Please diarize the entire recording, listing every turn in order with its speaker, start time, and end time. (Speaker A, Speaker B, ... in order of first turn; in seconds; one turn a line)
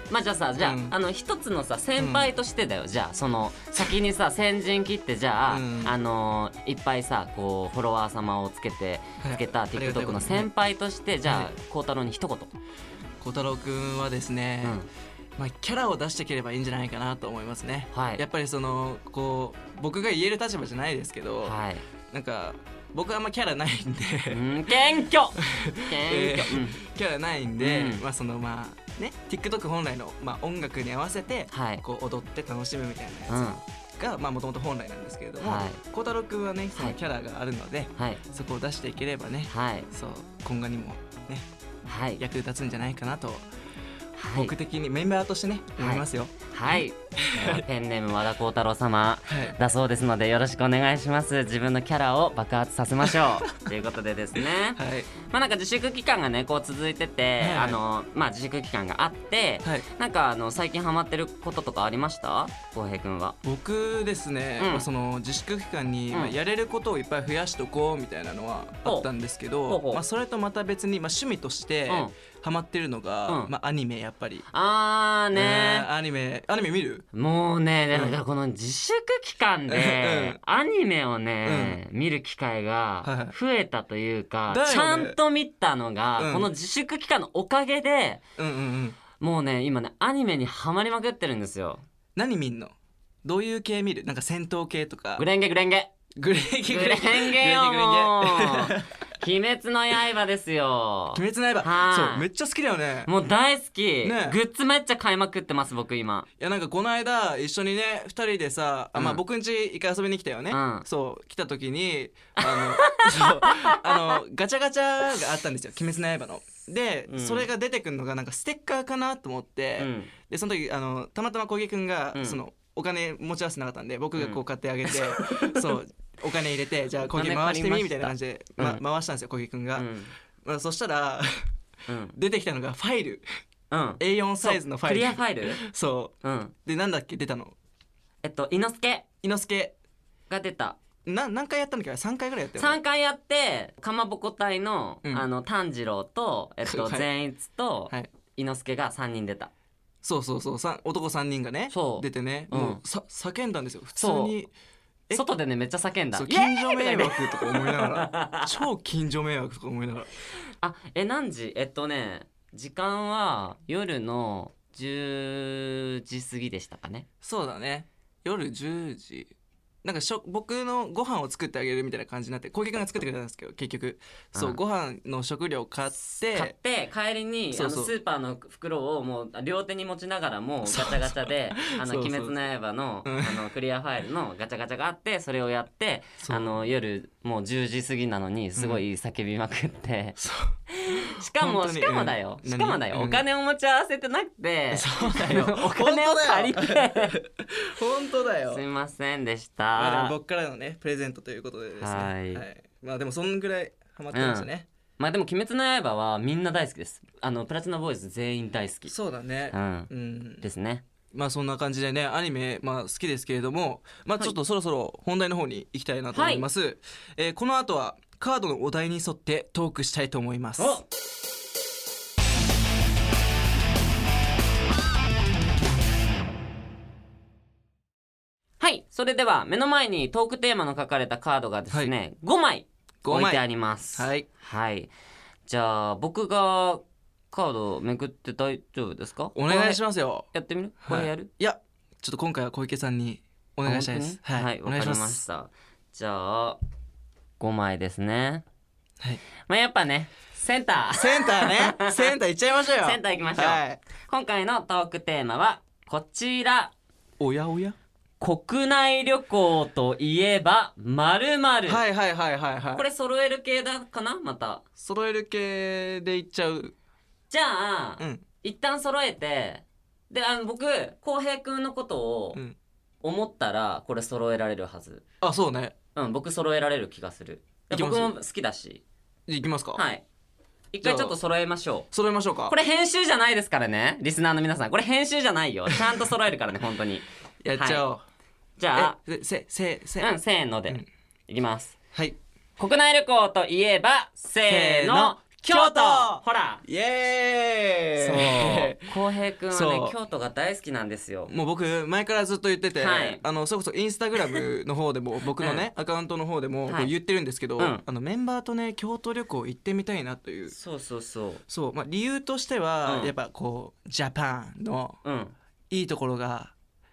Speaker A: 0.1-12.5
Speaker B: 0.6-1.0
Speaker B: 2.0-2.3
Speaker B: 5.5-5.9
Speaker B: 9.2-10.5
Speaker B: 11.2-11.5
Speaker B: 13.2-14.8
Speaker A: 14.6-14.9
Speaker B: 15.4-21.6
Speaker A: 17.9-18.2
Speaker A: 21.4-21.8
Speaker B: 22.1-24.5
Speaker A: 24.3-26.8
Speaker B: 25.4-41.5
Speaker A: 27.6-28.0
Speaker A: 31.5-31.8
Speaker A: 33.3-33.6
Speaker A: 35.4-35.8
Speaker A: 39.5-39.9
Speaker A: 41.9-42.2
Speaker B: 42.2-43.5
Speaker A: 44.2-44.5
Speaker B: 44.3-46.3
Speaker A: 45.8-63.4
Speaker B: 47.3-47.6
Speaker B: 49.3-49.6
Speaker B: 53.0-53.5
Speaker B: 54.4-55.1
Speaker B: 57.4-57.8
Speaker B: 63.4-74.5
Speaker A: 64.6-64.9
Speaker A: 69.7-70.0
Speaker A: 71.9-72.2
Speaker A: 73.3-73.5
Speaker A: 74.5-75.9
Speaker B: 75.3-77.1
Speaker A: 77.1-88.2
Speaker B: 77.9-78.2
Speaker B: 79.7-80.4
Speaker B: 81.5-81.8
Speaker B: 83.0-83.4
Speaker B: 84.5-85.2
Speaker B: 86.2-86.5
Speaker B: 88.4-89.0
Speaker A: 89.2-91.8
Speaker B: 92.2-95.2
Speaker A: 95.2-95.9
Speaker B: 96.2-98.9
Speaker A: 96.7-102.3
Speaker B: 101.1-103.1
Speaker A: 103.1-106.3
Speaker B: 104.0-104.4
Speaker B: 106.4-131.5
Speaker A: 110.5-110.8
Speaker A: 112.4-113.5
Speaker A: 117.1-117.5
Speaker A: 119.8-120.1
Speaker A: 124.2-125.7
Speaker A: 127.1-128.8
Speaker A: 129.8-130.1
Speaker A: 131.9-132.2
Speaker B: 132.2-133.2
Speaker A: 133.7-135.6
Speaker B: 134.0-137.6
Speaker A: 136.2-136.5
Speaker A: 138.2-139.1
Speaker B: 139.2-139.7
Speaker A: 140.3-140.8
Speaker B: 141.1-142.8
Speaker A: 142.6-149.5
Speaker B: 146.7-147.1
Speaker B: 150.0-154.5
Speaker A: 151.7-152.8
Speaker A: 154.0-154.3
Speaker A: 155.1-158.4
Speaker B: 156.1-160.1
Speaker A: 160.6-167.1
Speaker B: 167.2-169.3
Speaker B: 169.8-176.5
Speaker A: 176.2-190.2
Speaker B: 177.5-177.9
Speaker B: 180.7-182.3
Speaker B: 183.0-183.5
Speaker B: 186.2-186.6
Speaker B: 188.6-188.8
Speaker B: 190.2-190.6
Speaker A: 190.7-197.1
Speaker B: 191.4-193.2
Speaker B: 194.7-198.6
Speaker A: 198.5-200.2
Speaker B: 199.8-204.7
Speaker A: 201.8-202.4
Speaker A: 204.1-208.9
Speaker B: 208.9-210.5
Speaker A: 209.5-210.8
Speaker B: 211.1-220.8
Speaker A: 216.1-216.5
Speaker A: 220.6-220.8
Speaker A: 228.6-234.9
Speaker B: 233.0-234.3
Speaker A: 235.5-241.3
Speaker B: 239.3-240.3
Speaker B: 240.8-245.2
Speaker A: 243.7-246.6
Speaker A: 247.4-248.4
Speaker A: 249.5-252.0
Speaker B: 250.9-253.8
Speaker A: 252.8-256.7
Speaker B: 257.2-257.8
Speaker A: 258.2-261.8
Speaker B: 261.7-262.9
Speaker A: 262.8-264.6
Speaker B: 264.8-266.7
Speaker A: 267.3-272.4
Speaker B: 268.0-268.2
Speaker A: 273.0-275.0
Speaker B: 275.2-275.8
Speaker A: 275.9-278.8
Speaker B: 277.7-278.2
Speaker B: 279.3-279.8
Speaker A: 279.8-280.0
Speaker A: 280.7-281.9
Speaker B: 280.8-281.2
Speaker B: 281.9-282.6
Speaker A: 282.5-287.9
Speaker B: 287.4-288.1
Speaker A: 288.6-289.0
Speaker B: 288.8-290.1
Speaker A: 290.0-291.8
Speaker A: 292.6-296.6
Speaker B: 294.5-300.0
Speaker A: 298.0-301.3
Speaker B: 301.3-310.6
Speaker A: 302.8-303.2
Speaker A: 305.4-305.6
Speaker A: 307.6-307.8
Speaker A: 310.5-311.4
Speaker B: 311.5-315.0
Speaker A: 312.8-313.1
Speaker A: 315.0-315.4
Speaker B: 315.7-316.5